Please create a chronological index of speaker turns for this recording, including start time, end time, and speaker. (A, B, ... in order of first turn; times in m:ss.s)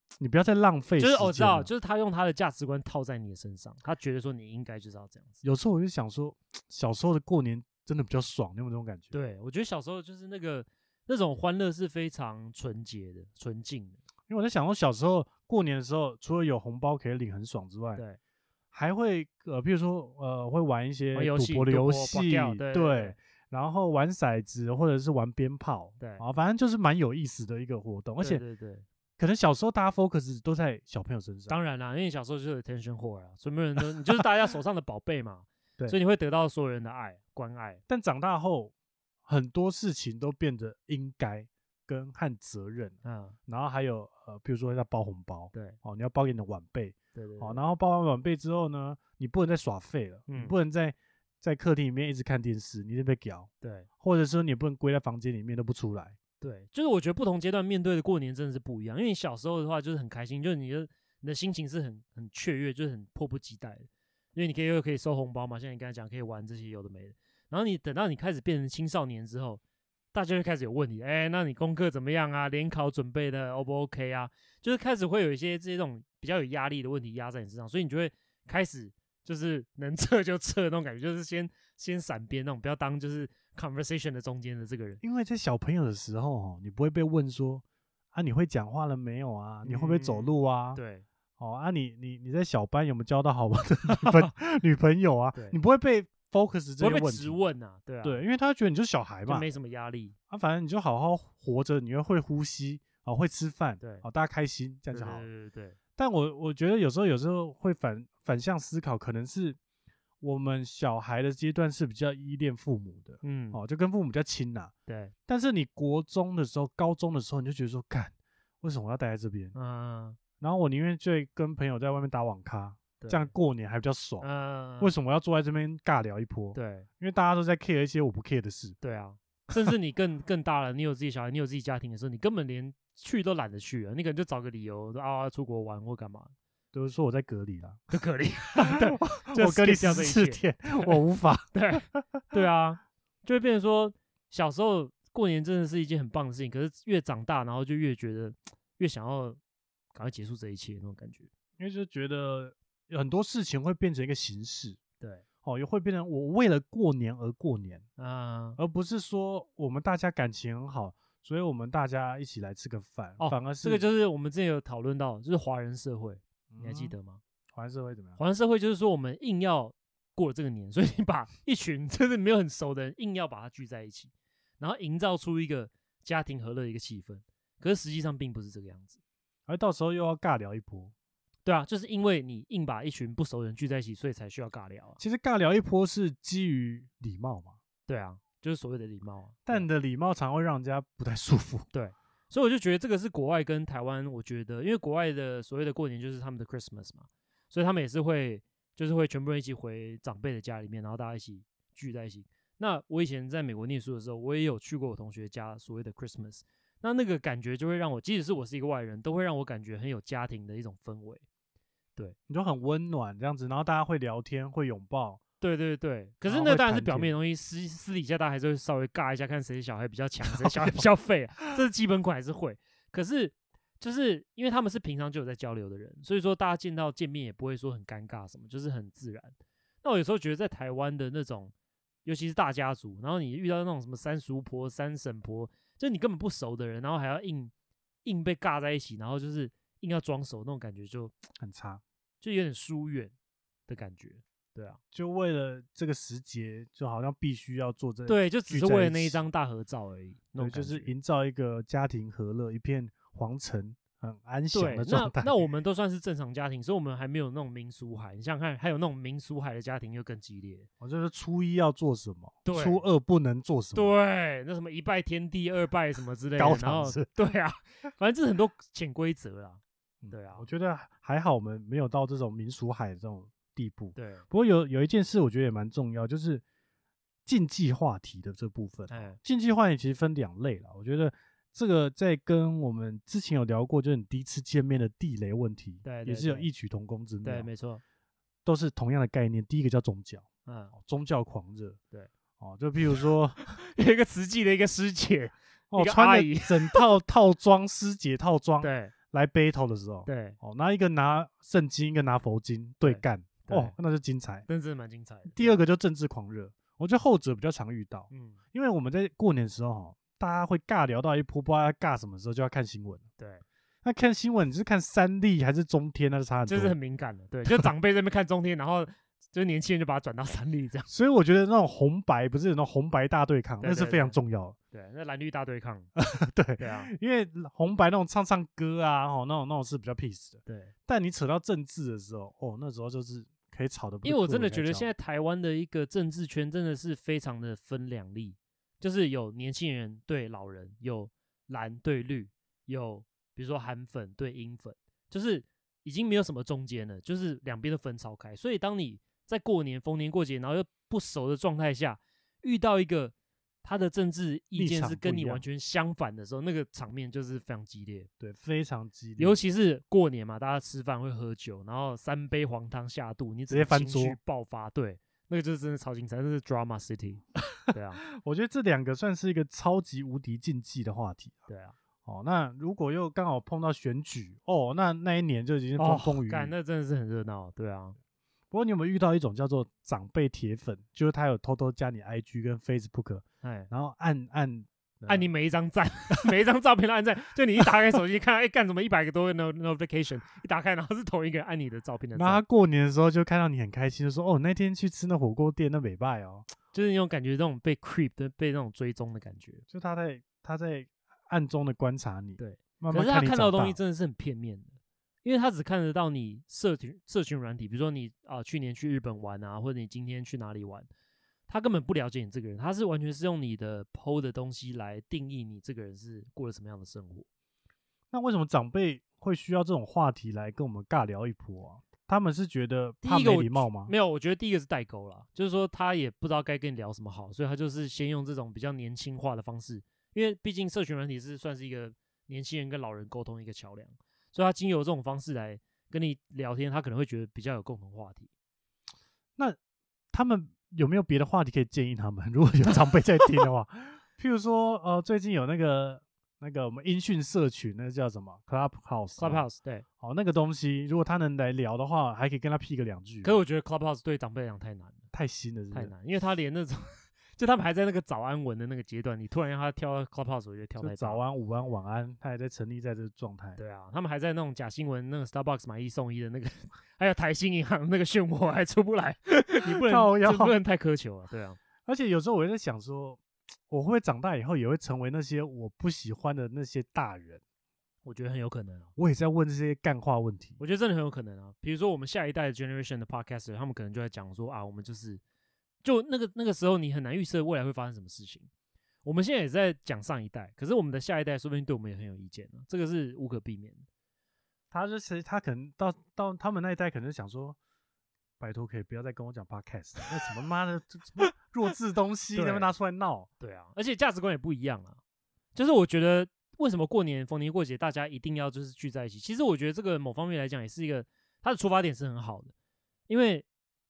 0:00.2-0:01.7 A
0:01.0-0:05.4 B
0:05.4-0:09.1 A
0:09.1-0:14.0 B
0:14.3-0:18.0 A
0:18.7-0:28.4 A
0:21.1-0:23.2 B
0:28.2-0:28.8 B
0:29.2-0:31.6 A
0:31.5-0:37.8 B
0:37.9-0:38.7 A
0:39.3-0:53.5 A
0:43.0-0:43.4 B
0:45.5-0:45.8 B
0:47.1-0:47.6 B
0:50.3-0:50.6 B
0:53.6-0:53.9 B
0:54.0-0:56.2 A
0:56.4-1:09.6 B
1:10.1-1:25.0 B
1:25.0-1:27.6 A
1:28.1-1:30.8 A
1:29.6-1:31.0 B
1:31.4-1:37.4 A
1:34.0-1:34.3 B
1:36.8-1:38.2 B
1:38.0-1:39.5 A
1:39.3-1:40.2 B
1:40.3-1:45.3 A
1:43.8-1:44.0 B
1:44.9-1:45.8 B
1:46.0-1:49.6 A
1:50.2-1:54.7 A
1:53.2-1:53.6 B
1:54.9-1:55.1 B
1:55.3-1:59.5 A
1:59.5-2:00.2 B
2:00.4-2:04.3 A
2:03.0-2:03.3 B
2:04.2-2:04.9 B
2:04.8-2:08.8 A
2:06.5-2:06.9 B
2:08.8-2:16.3 B
2:16.7-2:17.8 A
2:17.9-2:21.0 B
2:18.6-2:22.4 A
2:21.5-2:29.4 B
2:29.9-2:31.3 B
2:31.6-2:34.8 A
2:35.4-2:37.8 A
2:38.0-2:38.6 B
2:38.6-2:43.9 A
2:43.2-2:47.2 B
2:46.5-2:47.0 A
2:47.5-2:48.2 A
2:48.2-2:59.0 B
2:59.5-3:00.9 A
3:01.4-3:05.0 B
3:05.0-3:07.6 A
3:07.9-3:09.7 B
3:09.4-3:11.6 A
3:11.7-3:31.2 B
3:32.3-3:35.2 A
3:35.4-3:51.5 B
3:36.3-3:37.1 A
3:40.2-3:40.8 A
3:52.0-3:57.5 B
3:58.0-4:01.1 B
4:01.4-4:01.8 A
4:02.2-4:03.1 B
4:03.7-4:04.8 B
4:04.9-4:09.2 A
4:08.1-4:10.9 B
4:10.4-4:15.5 A
4:14.5-4:20.7 B
4:20.8-4:23.9 A
4:22.4-4:22.8 B
4:23.7-4:30.5 B
4:26.4-4:27.1 A
4:30.0-4:36.4 A
4:33.9-4:34.2 B
4:37.2-4:47.5 A
4:38.9-4:39.2 B
4:45.8-4:46.5 B
4:47.2-4:47.8 B
4:48.4-4:51.8 A
4:50.4-4:50.7 B
4:52.4-4:53.6 A
4:52.9-4:56.8 B
4:55.7-5:04.4 A
4:58.6-4:58.9 B
5:00.0-5:00.4 B
5:02.8-5:03.7 B
5:04.5-5:05.6 B
5:05.2-5:13.0 A
5:08.1-5:08.4 B
5:13.2-5:13.4 B
5:13.8-5:16.8 A
5:16.5-5:20.9 B
5:17.4-5:17.7 A
5:20.9-5:24.6 A
5:23.6-5:24.2 B
5:24.7-5:25.9 B
5:26.0-5:34.9 A
5:26.6-5:26.9 B
5:30.4-5:30.7 B
5:34.0-5:58.1 B
5:54.5-5:55.4 A
5:58.2-5:59.4 A
5:59.2-6:08.0 B
6:03.5-6:04.2 A
6:08.1-6:11.5 A
6:11.5-6:11.7 B
6:12.0-6:16.5 A
6:15.8-6:17.9 B
6:18.5-6:25.3 A
6:23.4-6:23.7 B
6:25.0-6:32.4 B
6:32.1-6:36.5 A
6:36.7-6:39.6 B
6:39.7-6:43.8 A
6:42.4-6:50.9 B
6:51.5-6:57.3 B
6:58.1-7:03.9 A
7:03.0-7:18.3 B
7:20.1-7:29.5 A
7:29.2-7:29.8 B
7:30.0-7:33.4 A
7:33.2-7:35.0 B
7:35.1-7:35.9 A
7:35.7-7:41.2 B
7:40.8-7:43.6 A
7:43.6-7:51.6 B
7:49.6-7:50.6 A
7:51.8-7:57.4 A
7:58.0-7:58.9 B
7:59.0-8:00.6 A
8:00.6-8:05.2 B
8:05.8-8:08.5 B
8:09.0-8:13.8 B
8:14.7-8:17.6 A
8:18.4-8:23.3 A
8:22.3-8:22.7 B
8:23.4-8:25.0 B
8:25.5-8:32.5 B
8:33.1-8:33.4 B